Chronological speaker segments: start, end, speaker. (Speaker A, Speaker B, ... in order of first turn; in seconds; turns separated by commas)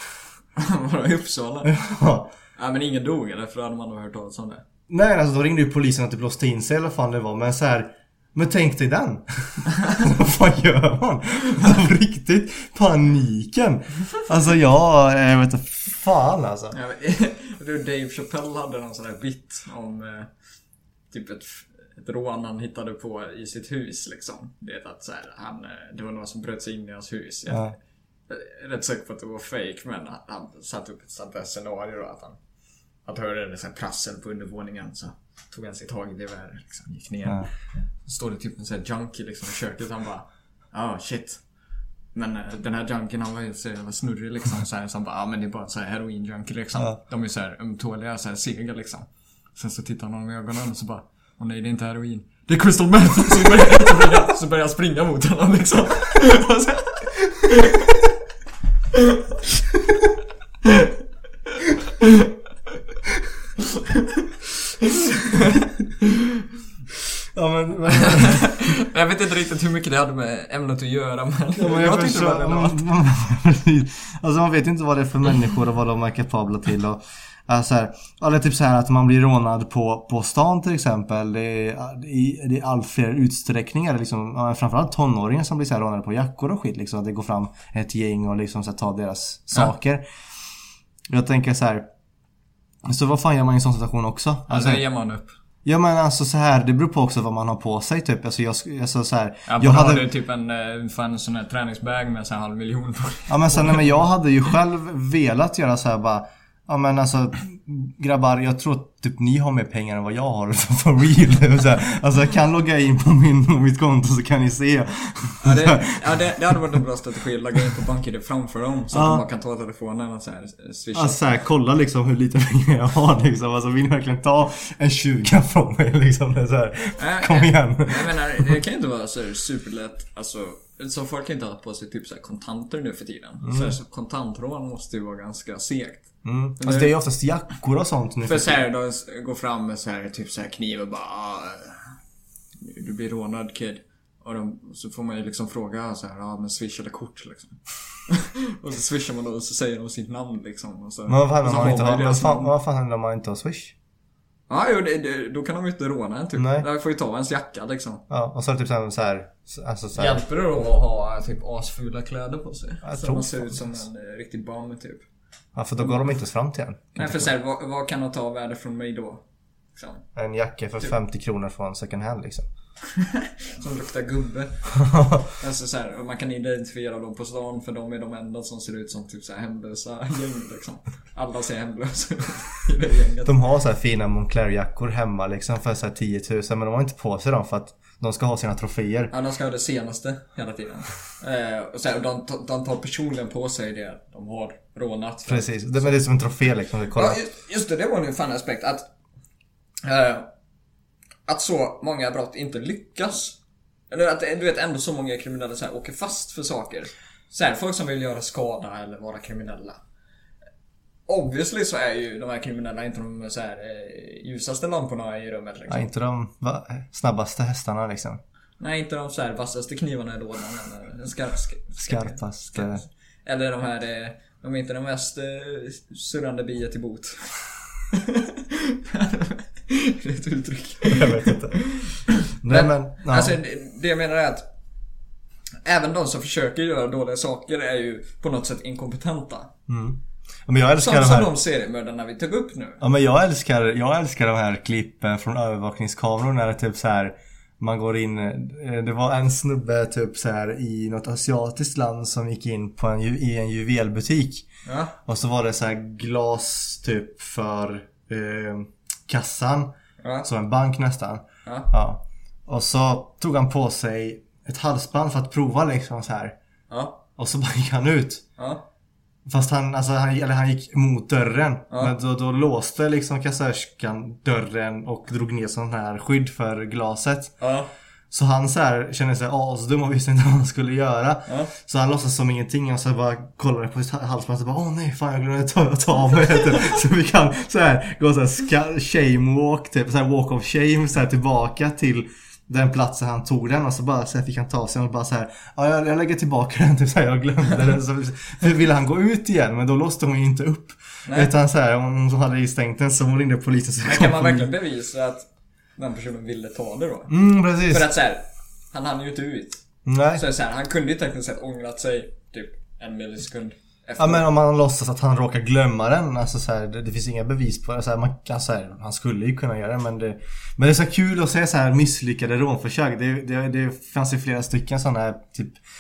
Speaker A: 0.6-1.7, Speaker B: 1.6-2.3, Speaker A: 2.6-4.6, Speaker B: 4.9-16.8, Speaker A: 9.8-10.0, Speaker A: 16.7-20.3, Speaker A: 21.1-27.7, Speaker B: 27.5-27.8, Speaker A: 28.3-32.4, Speaker A: 33.1-37.5, Speaker A: 38.0-41.4, Speaker A: 42.1-58.0, Speaker B: 53.6-54.0, Speaker A: 60.7-60.9, Speaker A: 62.0-62.3, Speaker A: 63.7-64.3, Speaker A: 64.8-65.7, Speaker B: 67.3-68.5, Speaker A: 68.0-72.8, Speaker B: 71.6-90.0, Speaker B: 91.1-91.9, Speaker B: 92.9-94.8, Speaker A: 94.5-95.3, Speaker B: 95.7-100.1, Speaker A: 99.5-104.0, Speaker B: 103.3-116.3, Speaker A: 115.4-121.2, Speaker B: 118.9-119.2, Speaker B: 121.0-128.6, Speaker A: 127.0-136.1, Speaker B: 133.4-133.7, Speaker B: 136.2-138.7, Speaker A: 136.6-136.9, Speaker A: 138.2-141.9, Speaker A: 142.6-152.5, Speaker B: 151.1-153.8, Speaker A: 154.5-158.0, Speaker B: 156.4-156.7, Speaker B: 158.1-160.2, Speaker A: 160.0-165.1, Speaker B: 162.8-163.8, Speaker B: 165.6-167.3, Speaker A: 166.9-169.2, Speaker A: 169.8-170.0, Speaker B: 170.2-172.5, Speaker A: 172.9-174.8, Speaker B: 174.8-175.3, Speaker A: 175.3-183.3, Speaker B: 183.3-189.1, Speaker A: 189.1-195.9, Speaker B: 195.3-197.2, Speaker A: 196.9-198.8, Speaker A: 199.8-200.3, Speaker A: 201.3-203.4, Speaker A: 203.9-209.8, Speaker A: 211.1-215.9, Speaker B: 215.7-218.2, Speaker A: 218.6-234.5, Speaker B: 221.8-222.8, Speaker B: 230.9-231.6, Speaker B: 232.4-233.4, Speaker A: 235.6-239.5, Speaker B: 239.7-241.3, Speaker A: 240.8-242.8, Speaker B: 242.8-254.5, Speaker A: 254.7-254.9, Speaker B: 255.0-259.7, Speaker A: 260.0-260.3, Speaker B: 260.2-266.4, Speaker A: 266.7-267.0, Speaker B: 267.2-268.2, Speaker A: 268.4-268.6, Speaker B: 269.3-277.4, Speaker A: 277.4-277.7, Speaker B: 278.1-304.5, Speaker A: 301.1-301.3, Speaker A: 303.9-307.1, Speaker B: 307.1-307.9, Speaker A: 307.7-314.3, Speaker B: 309.9-310.2, Speaker B: 314.0-325.6